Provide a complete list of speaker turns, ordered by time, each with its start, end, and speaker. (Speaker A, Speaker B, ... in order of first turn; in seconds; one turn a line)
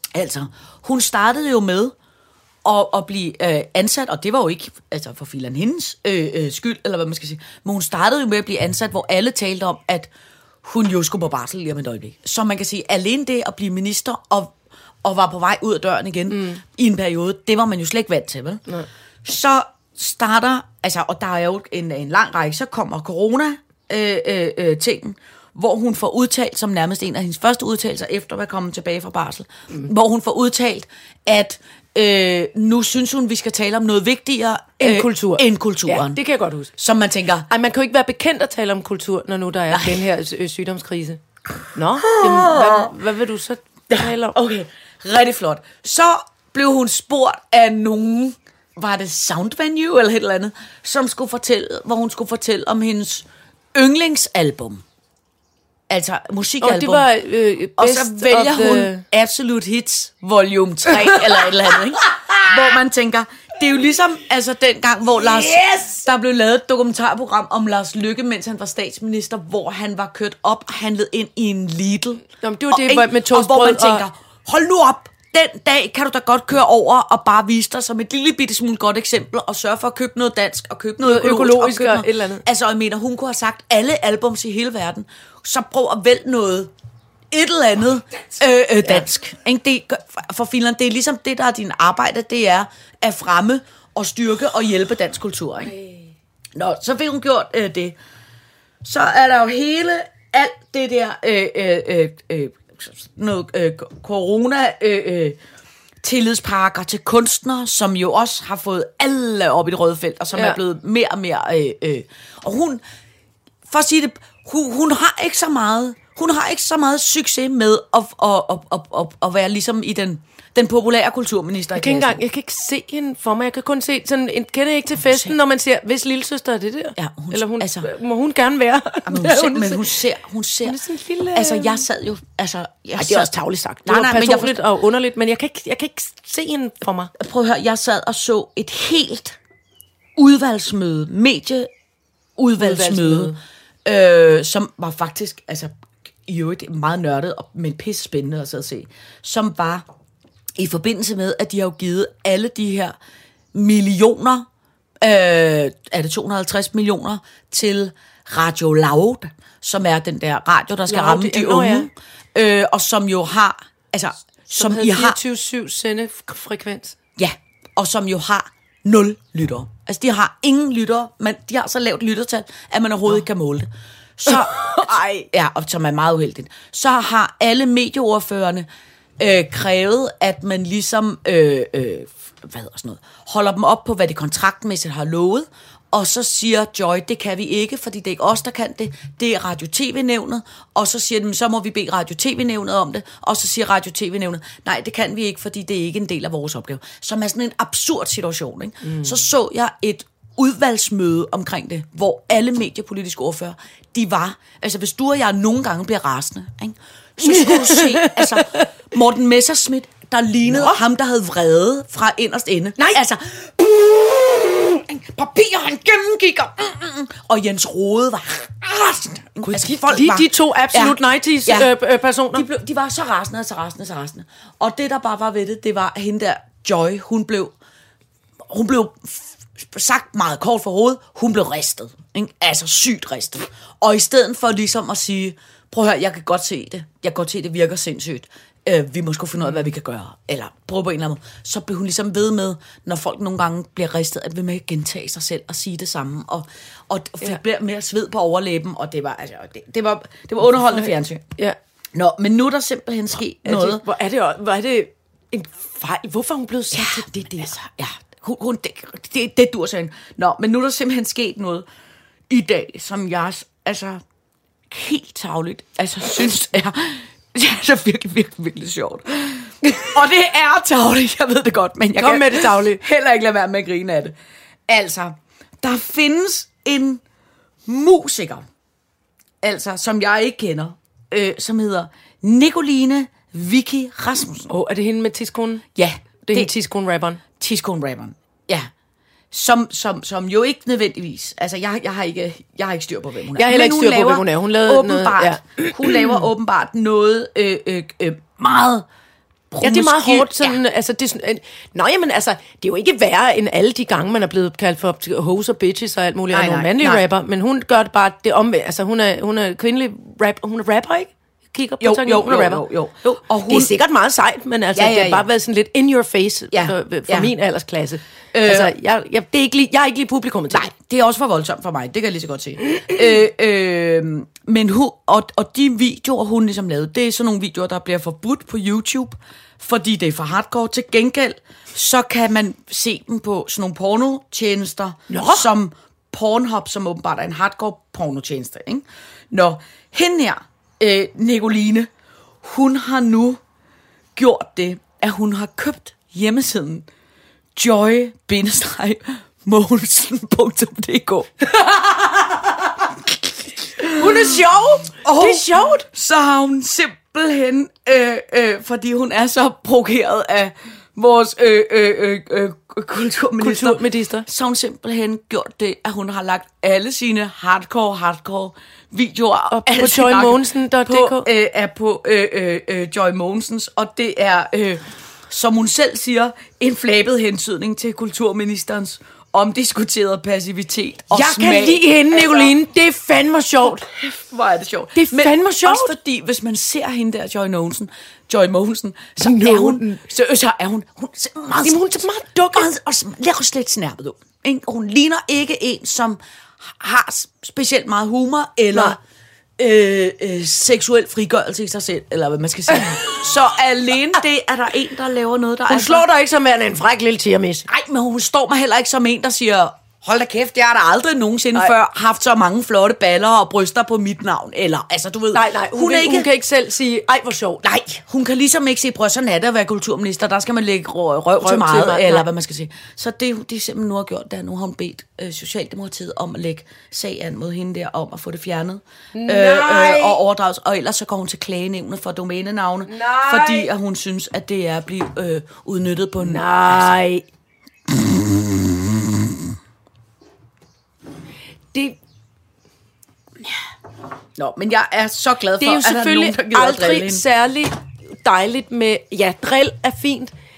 Speaker A: 0.1-1.9
Speaker A: 2.6-10.1
Speaker A: 10.6-18.6
Speaker B: 16.3-16.6
Speaker A: 19.2-36.2
Speaker B: 34.8-36.7
Speaker A: 36.8-37.5
Speaker B: 37.5-41.2
Speaker A: 39.7-40.0
Speaker B: 41.7-44.4
Speaker A: 42.0-42.9
Speaker A: 43.9-54.8
Speaker A: 55.9-57.1
Speaker B: 56.6-59.0
Speaker A: 57.8-86.7
Speaker B: 60.9-61.5
Speaker B: 62.4-62.8
Speaker B: 65.4-66.0
Speaker B: 72.4-74.0
Speaker B: 81.0-82.4
Speaker A: 87.3-95.8
Speaker A: 96.5-98.0
Speaker A: 98.8-105.4
Speaker A: 106.0-112.8
Speaker A: 113.7-122.2
Speaker B: 121.8-129.9
Speaker A: 125.0-125.3
Speaker A: 127.0-127.9
Speaker A: 129.1-133.3
Speaker B: 130.6-131.9
Speaker B: 133.0-137.1
Speaker A: 133.8-134.6
Speaker A: 137.2-139.4
Speaker A: 140.2-141.7
Speaker A: 142.4-143.3
Speaker B: 142.6-143.4
Speaker A: 143.8-145.7
Speaker A: 146.2-149.8
Speaker A: 150.6-152.9
Speaker A: 153.5-154.4
Speaker A: 155.0-165.2
Speaker B: 160.9-161.9
Speaker B: 164.5-166.9
Speaker A: 167.2-178.7
Speaker B: 174.3-175.2
Speaker A: 179.2-221.7
Speaker B: 207.2-208.7
Speaker B: 210.5-210.8
Speaker B: 219.4-222.4
Speaker A: 222.3-227.5
Speaker A: 228.5-251.2
Speaker B: 250.7-251.6
Speaker A: 251.9-253.8
Speaker B: 253.4-257.6
Speaker A: 256.7-261.6
Speaker A: 262.3-264.0
Speaker A: 264.7-274.1
Speaker B: 271.9-272.8
Speaker A: 274.7-277.0
Speaker A: 277.6-278.4
Speaker A: 279.4-284.5
Speaker B: 284.5-285.6
Speaker A: 285.8-286.5
Speaker B: 286.2-287.2
Speaker A: 287.4-288.7
Speaker A: 289.3-298.9
Speaker B: 293.4-296.1
Speaker A: 299.5-300.6
Speaker B: 299.6-312.6
Speaker A: 306.3-307.0
Speaker A: 311.8-313.7
Speaker B: 313.4-320.7
Speaker A: 314.7-315.2
Speaker A: 316.5-317.3
Speaker A: 318.3-318.7
Speaker A: 320.5-341.9
Speaker B: 335.1-335.5
Speaker A: 342.4-343.4
Speaker A: 344.1-346.9
Speaker A: 347.5-354.4
Speaker B: 353.9-355.9
Speaker A: 355.0-382.5
Speaker B: 363.4-364.2
Speaker B: 369.5-371.3
Speaker B: 381.1-383.8
Speaker A: 383.6-399.0
Speaker B: 384.9-385.9
Speaker B: 389.2-390.0
Speaker B: 391.6-392.7
Speaker A: 399.6-406.1
Speaker B: 405.7-407.7
Speaker A: 407.7-416.3
Speaker B: 415.3-418.0
Speaker A: 417.6-436.9
Speaker B: 421.4-422.3
Speaker B: 429.1-430.2
Speaker B: 432.9-433.7
Speaker B: 436.2-437.2
Speaker A: 437.9-439.1
Speaker B: 441.7-442.0
Speaker A: 444.4-447.2
Speaker B: 445.6-450.3